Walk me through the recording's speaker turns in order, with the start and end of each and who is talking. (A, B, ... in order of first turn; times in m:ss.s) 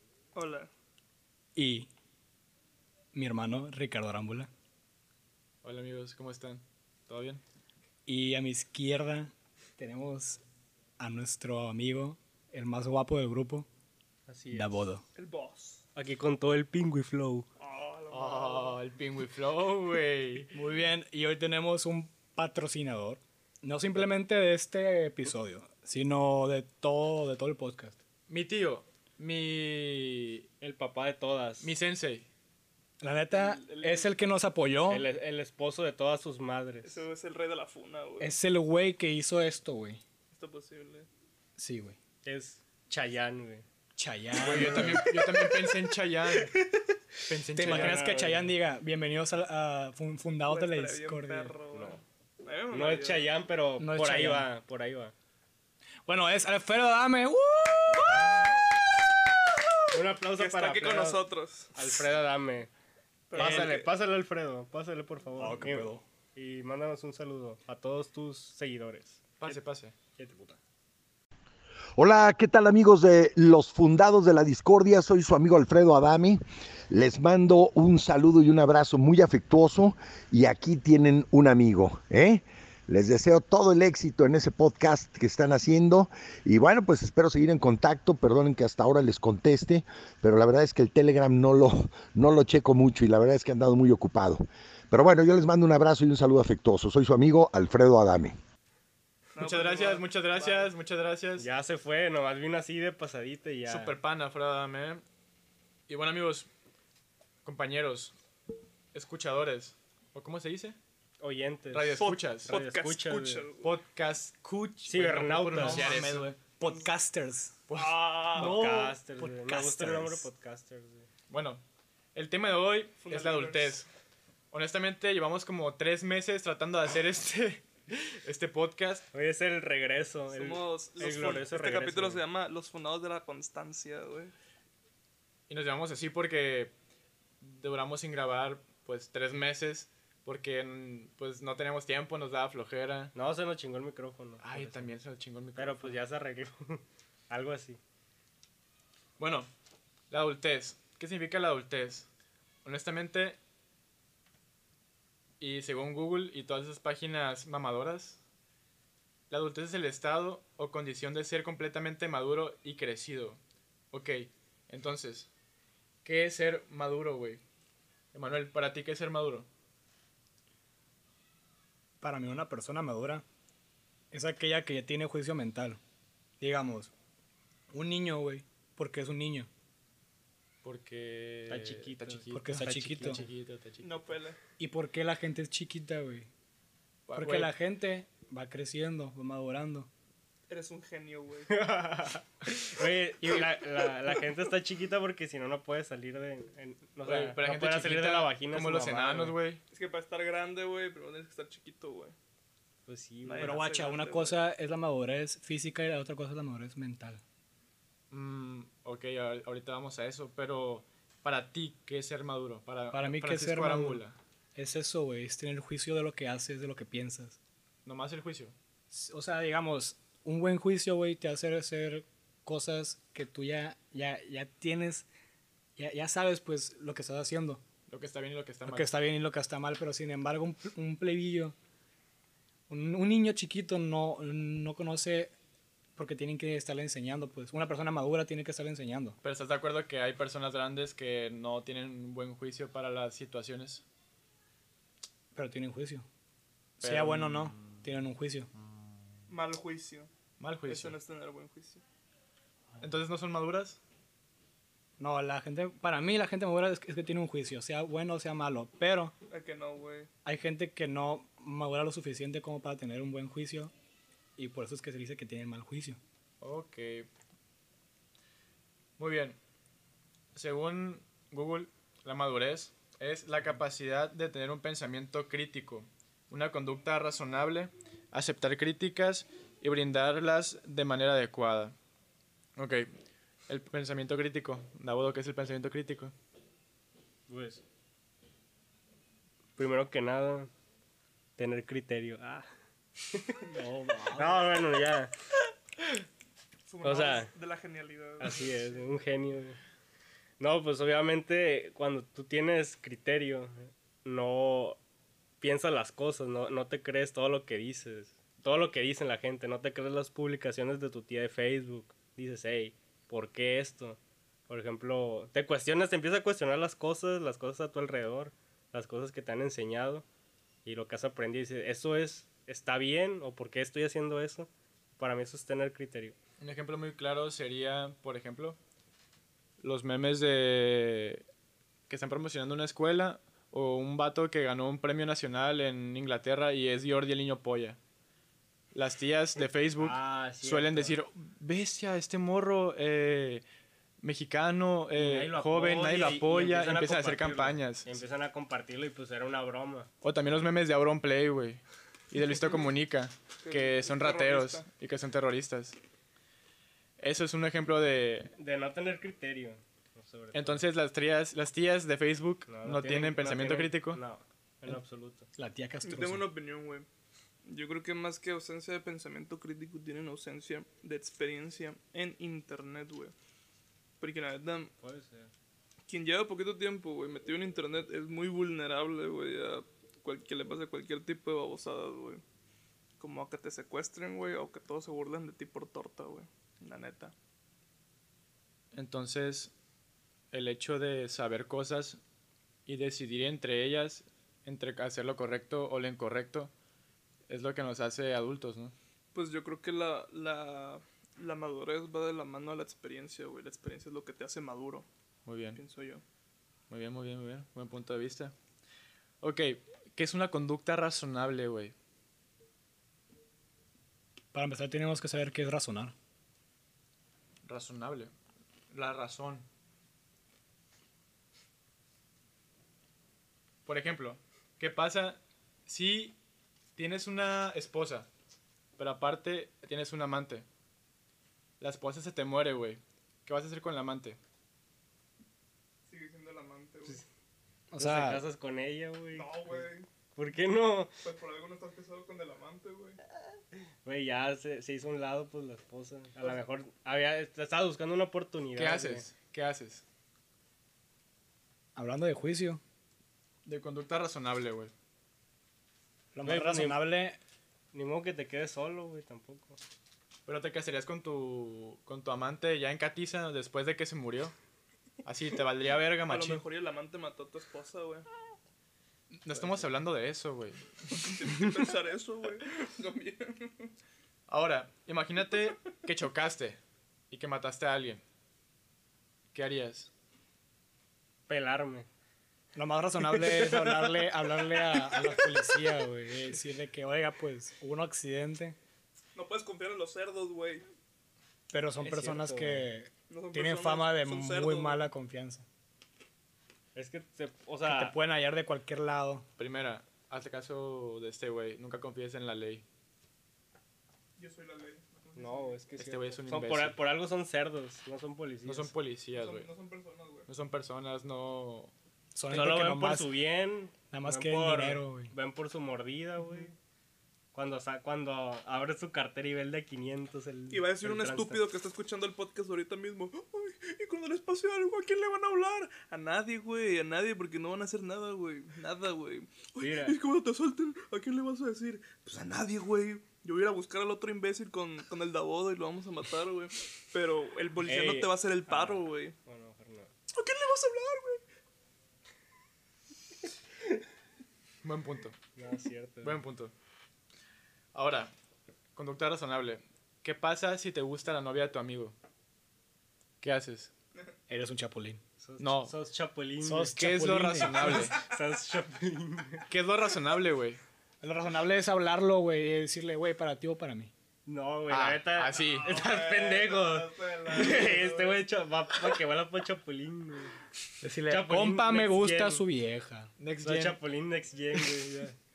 0:00.3-0:00.7 A
0:01.6-0:01.9 B
0:03.1-0:04.5 B
0:05.6-0:07.4 C
0:08.1-0:10.4 B
0:11.0-0:13.7 B
0:14.3-0:14.8 D
0:14.5-0:15.0 B
0:15.2-0:15.8 A
0:16.0-0:17.5 D
0:17.6-0:18.8 A
0:18.1-0:20.5 C
0:20.5-0:28.0 B
0:28.3-0:30.5 C
0:30.6-0:31.7 D
0:31.6-0:32.3 C
0:33.0-0:35.1 B
0:33.3-0:34.1 A
0:34.9-0:37.0 D
0:36.8-0:38.3 A
0:38.2-0:40.0 B
0:40.3-0:41.1 A
0:41.6-0:42.0 B
0:42.2-0:43.6 D
0:44.0-0:45.5 B
0:44.4-0:46.5 C
0:44.5-0:45.0 D
0:47.3-0:48.1 C
0:47.5-0:51.6 B
0:47.6-0:48.5 D
0:50.5-0:53.3 A
0:51.7-0:52.0 D
0:52.7-0:55.1 D
0:53.8-0:54.5 B
0:56.1-0:58.6 B
0:59.9-1:02.7 D
1:00.4-1:01.7 A
1:03.3-1:03.9 A
1:03.3-1:09.6 D
1:05.4-1:06.0 B
1:09.4-1:09.9 C
1:10.2-1:10.6 D
1:12.0-1:38.4 E
1:39.4-1:40.7 A
1:39.4-1:41.5 C
1:41.4-1:43.9 D
1:43.7-1:45.0 C
1:45.9-1:46.5 C
1:47.4-1:48.1 C
1:48.9-1:50.8 C
1:51.2-1:53.5 D
1:51.7-1:52.5 C
1:52.0-1:53.8 A
1:53.6-1:56.4 C
1:54.8-1:55.9 D
1:55.5-1:57.7 B
1:57.7-1:58.5 C
1:57.8-1:58.5 A
1:58.3-2:00.3 B
1:58.4-2:01.1 D
2:01.3-2:01.6 C
2:02.2-2:03.9 C
2:03.0-2:03.8 A
2:04.5-2:09.0 C
2:09.1-2:12.2 D
2:10.3-2:14.3 A
2:15.5-2:16.7 C
2:17.4-2:23.1 C
2:23.1-2:24.9 D
2:24.4-2:26.0 C
2:25.6-2:27.8 D
2:29.2-2:29.5 C
2:30.1-2:32.1 C
2:32.6-2:33.4 C
2:35.4-2:38.2 C
2:39.3-2:43.4 C
2:43.9-2:45.3 C
2:46.0-2:47.4 C
2:48.1-2:49.5 C
2:52.0-2:53.2 B
2:54.1-2:55.8 B
2:56.4-2:56.9 B
2:57.7-2:59.5 B
3:00.6-3:03.9 C
3:01.5-3:03.3 D
3:02.3-3:03.2 B
3:03.8-3:04.4 A
3:04.6-3:06.3 B
3:07.1-3:07.5 C
3:07.2-3:09.9 B
3:10.5-3:11.5 A
3:11.5-3:19.4 D
3:17.0-3:19.6 C
3:19.7-3:22.2 A
3:22.9-3:23.7 D
3:23.2-3:24.4 A
3:23.4-3:27.2 B
3:28.1-3:34.2 C
3:32.9-3:34.0 B
3:34.6-3:37.4 B
3:37.8-3:38.5 C
3:38.9-3:45.1 B
3:45.8-3:47.6 B
3:47.9-3:49.0 C
3:48.7-3:51.6 B
3:52.7-3:55.3 B
3:56.0-3:59.2 B
3:59.2-4:03.8 C
4:05.4-4:06.1 B
4:06.8-4:07.8 C
4:06.8-4:08.5 B
4:09.3-4:10.1 A
4:10.4-4:11.0 C
4:10.7-4:11.8 A
4:12.8-4:13.8 C
4:15.0-4:19.1 B
4:19.3-4:20.1 A
4:20.2-4:23.7 B
4:24.4-4:26.0 B
4:26.4-4:27.1 C
4:29.0-4:29.4 C
4:30.4-4:41.8 C
4:42.6-4:42.9 C
4:43.5-4:46.1 C
4:47.3-4:47.6 D
4:49.6-4:50.5 D
4:51.4-4:52.5 D
4:53.1-4:53.4 D
4:53.5-4:54.4 B
4:54.1-4:55.1 D
4:56.7-4:58.8 A
4:56.8-4:57.3 D
4:58.2-4:59.6 D
5:00.4-5:04.8 D
5:05.4-5:20.0 D
5:20.6-5:26.2 D
5:26.4-5:28.6 C
5:29.6-5:31.2 C
5:31.9-5:37.8 C
5:38.7-5:43.4 C
5:39.8-5:41.0 D
5:44.0-5:47.9 C
5:44.9-5:49.9 D
5:50.0-5:55.8 C
5:53.4-5:54.7 A
5:57.0-5:58.3 C
5:58.4-6:00.6 D
6:00.3-6:04.0 C
6:02.5-6:05.3 D
6:05.4-6:06.3 B
6:05.8-6:06.9 A
6:07.4-6:13.1 A
6:14.0-6:14.7 A
6:14.8-6:15.3 D
6:15.9-6:22.2 A
6:23.0-6:27.1 A
6:28.7-6:29.5 C
6:30.3-6:32.0 C
6:32.7-6:36.5 C
6:37.3-6:38.7 C
6:39.1-6:44.9 A
6:45.3-6:45.6 C
6:45.5-6:46.0 A
6:46.7-6:48.3 C
6:49.2-6:51.7 C
6:54.3-6:55.9 B
6:57.4-6:58.1 C
6:58.7-6:59.5 C
7:03.7-7:06.2 C
7:06.8-7:08.1 C
7:08.8-7:10.4 C
7:11.6-7:14.2 C
7:15.9-7:17.0 A
7:17.7-7:18.2 B
7:17.8-7:21.0 D
7:19.2-7:19.9 A
7:21.0-7:23.0 A
7:23.8-7:29.1 D
7:28.6-7:29.8 C
7:31.8-7:32.6 B
7:33.5-7:34.7 C
7:36.1-7:37.2 B
7:36.2-7:36.8 D
7:37.7-7:39.6 D
7:40.3-7:44.3 C
7:45.0-7:46.4 C
7:46.1-7:48.1 A
7:49.2-7:51.1 C
7:49.4-7:49.7 D
7:50.9-7:53.7 A
7:54.3-7:56.6 C
7:57.1-7:58.0 C
7:59.3-7:59.9 C
8:01.3-8:01.9 D
8:02.6-8:08.6 B
8:03.1-8:06.2 D
8:09.2-8:10.6 A
8:11.5-8:15.5 B
8:11.8-8:12.7 D
8:13.1-8:14.9 A
8:16.8-8:18.0 D
8:17.7-8:19.3 B
8:19.4-8:22.6 C
8:24.2-8:25.6 A
8:25.2-8:28.7 D
8:25.8-8:26.8 C
8:28.4-8:29.5 C
8:29.1-8:30.3 A
8:30.3-8:31.7 C
8:32.2-8:33.1 B
8:32.3-8:36.6 D
8:33.9-8:35.1 B
8:37.3-8:41.5 D
8:40.5-8:59.2 A
8:49.6-8:50.0 D
8:57.7-8:59.9 D
9:00.1-9:01.2 A
9:04.6-9:05.2 C
9:05.4-9:06.2 D
9:06.0-9:06.5 C
9:07.7-9:08.1 C
9:08.8-9:12.0 C
9:13.2-9:13.7 C
9:14.3-9:15.0 B
9:15.2-9:16.8 D
9:15.4-9:15.7 C
9:16.4-9:17.9 B
9:16.8-9:18.0 C
9:17.6-9:19.5 D
9:19.5-9:20.6 C
9:21.0-9:23.9 B
9:24.3-9:30.4 D
9:24.7-9:25.8 C
9:25.4-9:28.3 A
9:30.8-9:31.5 C
9:31.1-9:32.4 D
9:31.1-9:33.1 B
9:33.2-9:33.8 C
9:33.4-9:35.2 D